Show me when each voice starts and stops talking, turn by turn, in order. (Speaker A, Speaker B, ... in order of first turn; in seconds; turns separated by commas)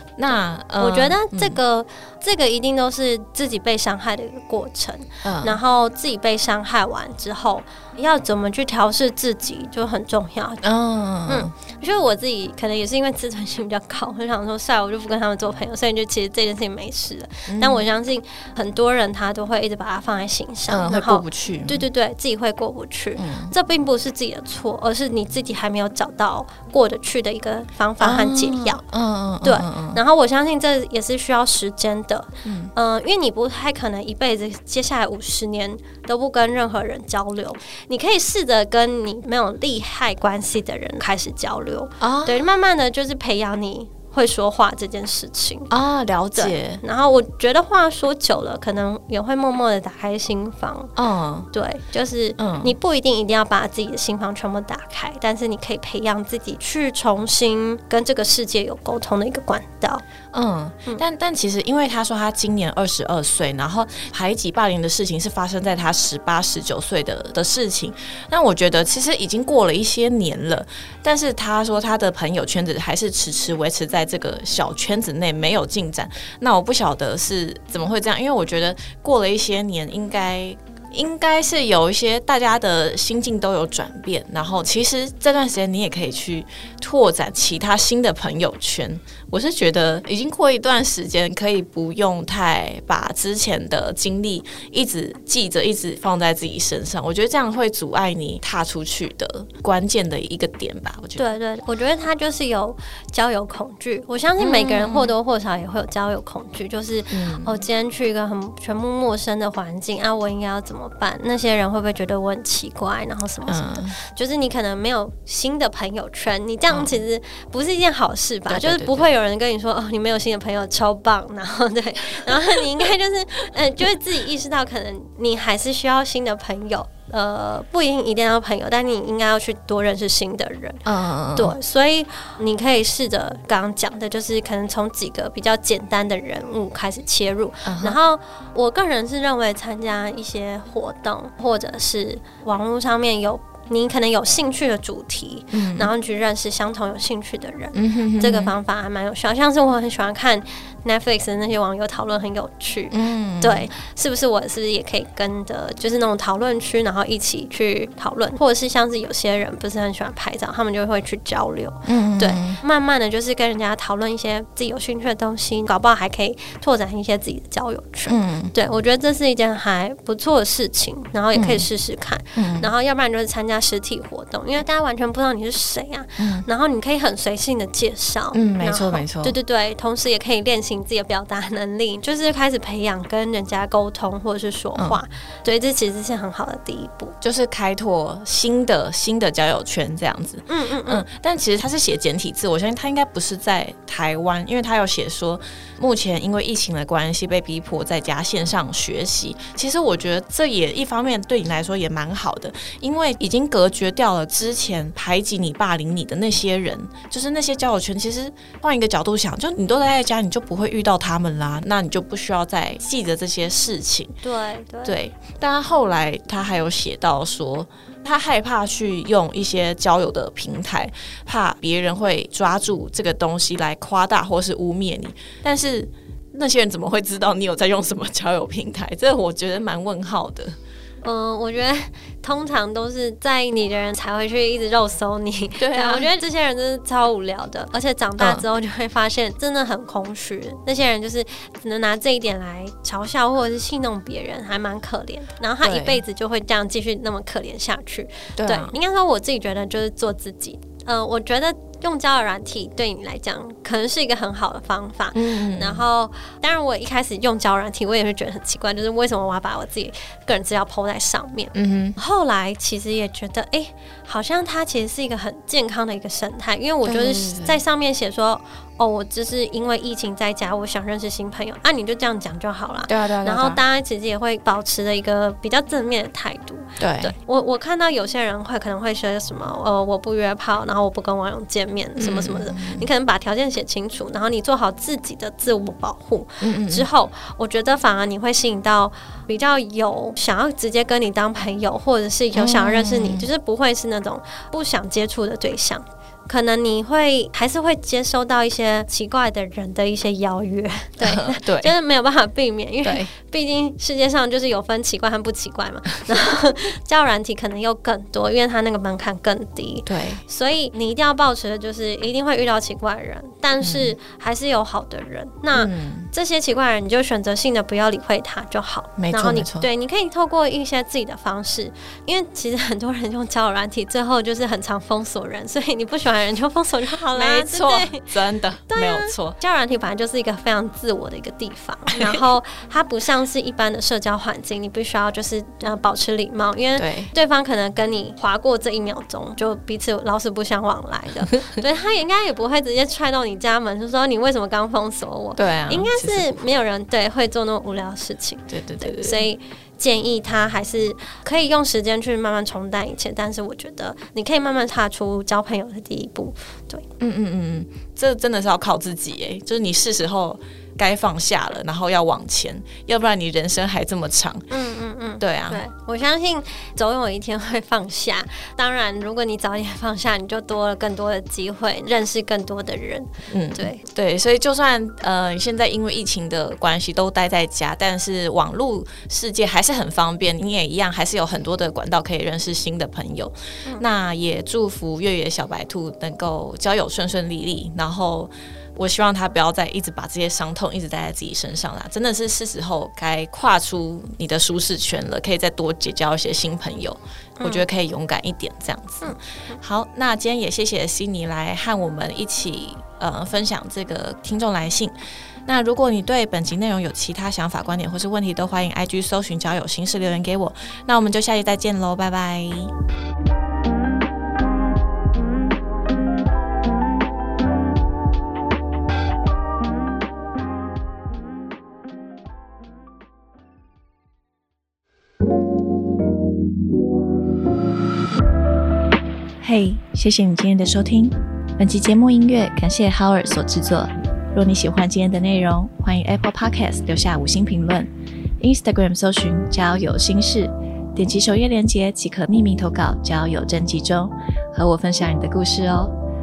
Speaker A: 0.2-1.6, Speaker B: 0.3-10.6, Speaker A: 5.2-5.6, Speaker A: 10.6-11.5, Speaker B: 11.3-28.8, Speaker A: 17.5-17.9, Speaker A: 20.7-21.8, Speaker A: 23.2-23.5, Speaker A: 28.0-30.0, Speaker B: 29.4-45.7, Speaker A: 32.4-32.7, Speaker A: 42.0-42.4, Speaker A: 45.7-46.8, Speaker B: 46.3-50.9, Speaker A: 51.0-51.5, Speaker B: 51.5-60.0, Speaker A: 52.4-52.7, Speaker A: 60.3-101.2, Speaker B: 101.2-130.8, Speaker A: 104.4-105.1, Speaker A: 107.1-107.5, Speaker A: 113.5-113.9, Speaker A: 116.7-117.0, Speaker A: 118.5-119.1, Speaker A: 130.8-131.6, Speaker B: 131.3-187.1, Speaker A: 137.6-138.0, Speaker A: 145.5-145.9, Speaker A: 147.7-148.5, Speaker A: 152.9-153.7, Speaker A: 161.8-162.6, Speaker A: 168.1-168.5, Speaker A: 171.3-171.7, Speaker A: 172.3-172.7, Speaker A: 176.2-176.4, Speaker A: 178.3-179.3, Speaker A: 184.7-185.0, Speaker A: 187.2-214.1, Speaker B: 190.5-191.0, Speaker B: 214.2-215.0, Speaker A: 214.8-230.5, Speaker B: 231.0-328.1, Speaker A: 235.6-236.1, Speaker A: 238.2-238.4, Speaker A: 245.6-246.0, Speaker A: 248.4-248.7, Speaker A: 255.1-255.8, Speaker A: 261.5-262.0, Speaker A: 266.8-267.6, Speaker A: 272.9-273.6, Speaker A: 276.8-277.1, Speaker A: 281.9-282.9, Speaker A: 286.4-286.9, Speaker A: 292.3-293.3, Speaker A: 301.0-301.7, Speaker A: 302.8-303.1, Speaker A: 309.9-310.2, Speaker A: 313.6-313.9, Speaker A: 315.5-316.1, Speaker A: 319.0-319.7, Speaker A: 327.1-329.4, Speaker B: 328.7-356.8, Speaker A: 336.8-337.1, Speaker A: 345.4-346.5, Speaker A: 348.5-349.2, Speaker A: 357.0-364.5, Speaker B: 364.5-373.8, Speaker A: 365.2-365.6, Speaker A: 373.3-404.9, Speaker B: 397.4-397.6, Speaker B: 399.0-399.5, Speaker A: 405.4-412.7, Speaker A: 429.4-445.9